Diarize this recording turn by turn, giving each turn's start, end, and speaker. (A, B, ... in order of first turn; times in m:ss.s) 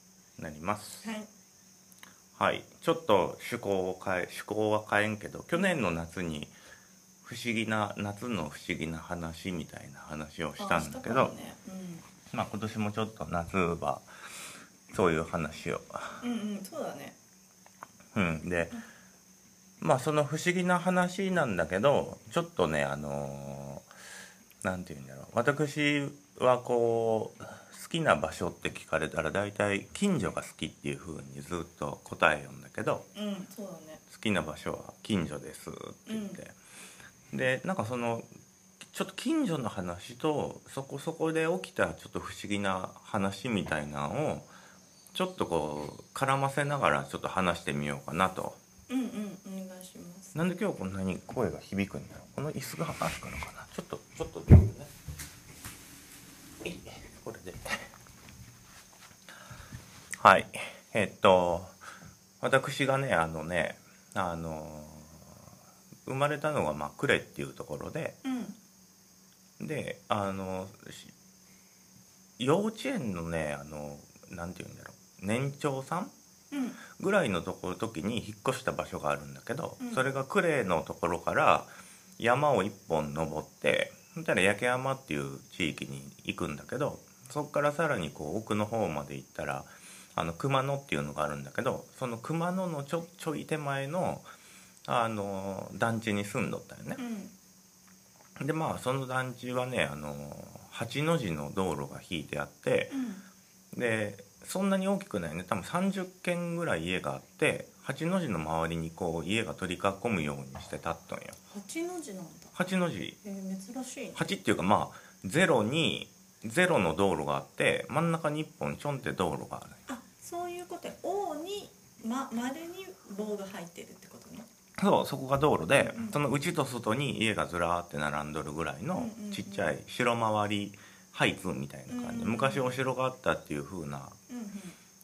0:00.4-0:01.1 A
0:01.0-0:01.3 B
0:02.4-0:06.5 A
0:05.5-0:05.8 B
0:07.2-0:11.3 A
0:10.6-0:12.0 B
0:12.3-0:14.1 A
0:14.9-0:16.2 A
0:16.2-0:17.2 B
0:18.2-0:18.8 A
0:19.8-0:23.9 A
0:24.6-0:33.1 A
0:33.2-0:34.0 B
0:34.1-0:36.6 A
0:36.1-0:36.4 B
0:37.3-0:38.3 A
0:38.9-0:44.5 A
0:45.1-0:48.6 A
0:48.9-0:50.4 B
0:50.4-0:54.9 A
0:56.6-0:57.9 A
1:00.2-1:01.8 A
1:02.4-1:05.4 A
1:06.1-1:08.2 A
1:08.2-1:08.6 B
1:09.6-1:11.1 A
1:12.4-1:16.1 A
1:16.5-1:16.8 B
1:17.0-1:34.3 A
1:19.8-1:20.1 B
1:34.9-1:37.0 A
1:37.0-1:37.3 B
1:38.4-1:43.0 A
1:42.9-1:43.2 B
1:43.7-1:51.4 A
1:51.5-1:54.2 B
1:52.5-1:53.2 A
1:54.2-1:59.8 A
1:59.9-2:04.5 B
2:04.8-2:14.2 A
2:05.7-2:06.2 B
2:08.9-2:09.8 B
2:11.9-2:12.7 B
2:14.3-2:14.8 B